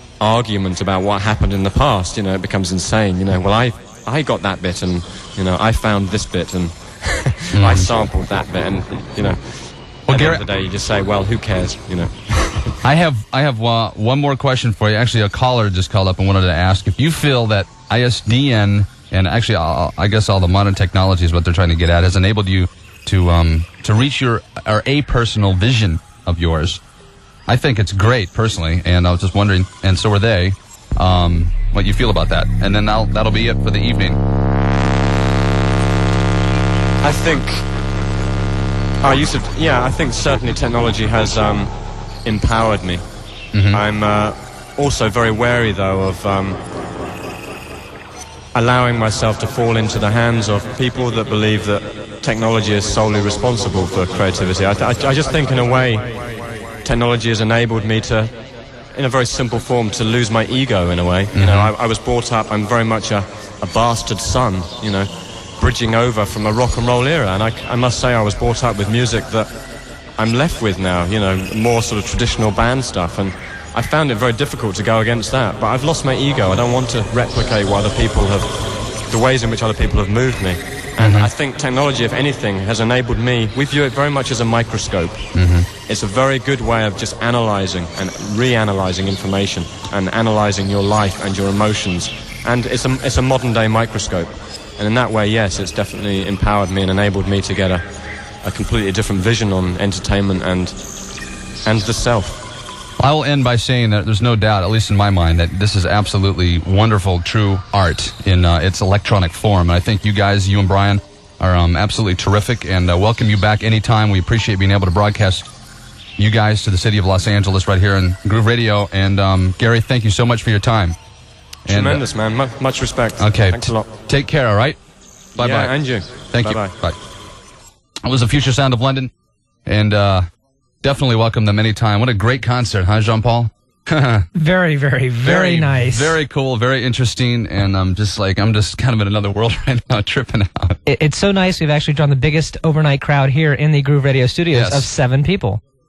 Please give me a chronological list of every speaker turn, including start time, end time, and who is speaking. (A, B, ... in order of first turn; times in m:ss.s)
0:00.2-0:12.7 A
0:07.5-0:07.9 B
0:10.1-0:10.4 B
0:12.8-0:26.8 B
0:27.5-0:34.2 B
0:37.0-0:37.7 A
0:39.0-0:43.1 A
0:43.5-0:43.8 B
0:43.8-0:46.6 A
0:48.6-0:56.1 A
0:56.8-0:58.4 A
0:58.9-1:09.5 A
1:01.3-1:01.7 B
1:10.2-1:25.3 A
1:21.0-1:21.3 B
1:25.4-1:25.7 B
1:25.9-1:37.8 A
1:38.4-1:40.8 A
1:41.6-1:42.5 A
1:43.0-1:55.5 B
1:56.2-2:01.0 B
2:01.7-2:02.0 B
2:01.8-2:03.8 A
2:03.2-2:04.8 B
2:05.4-2:07.0 B
2:05.7-2:06.8 A
2:08.0-2:09.1 B
2:09.7-2:10.2 B
2:10.8-2:14.3 B
2:14.4-2:16.2 C
2:15.2-2:20.8 B
2:20.9-2:25.6 C
2:24.5-2:24.9 B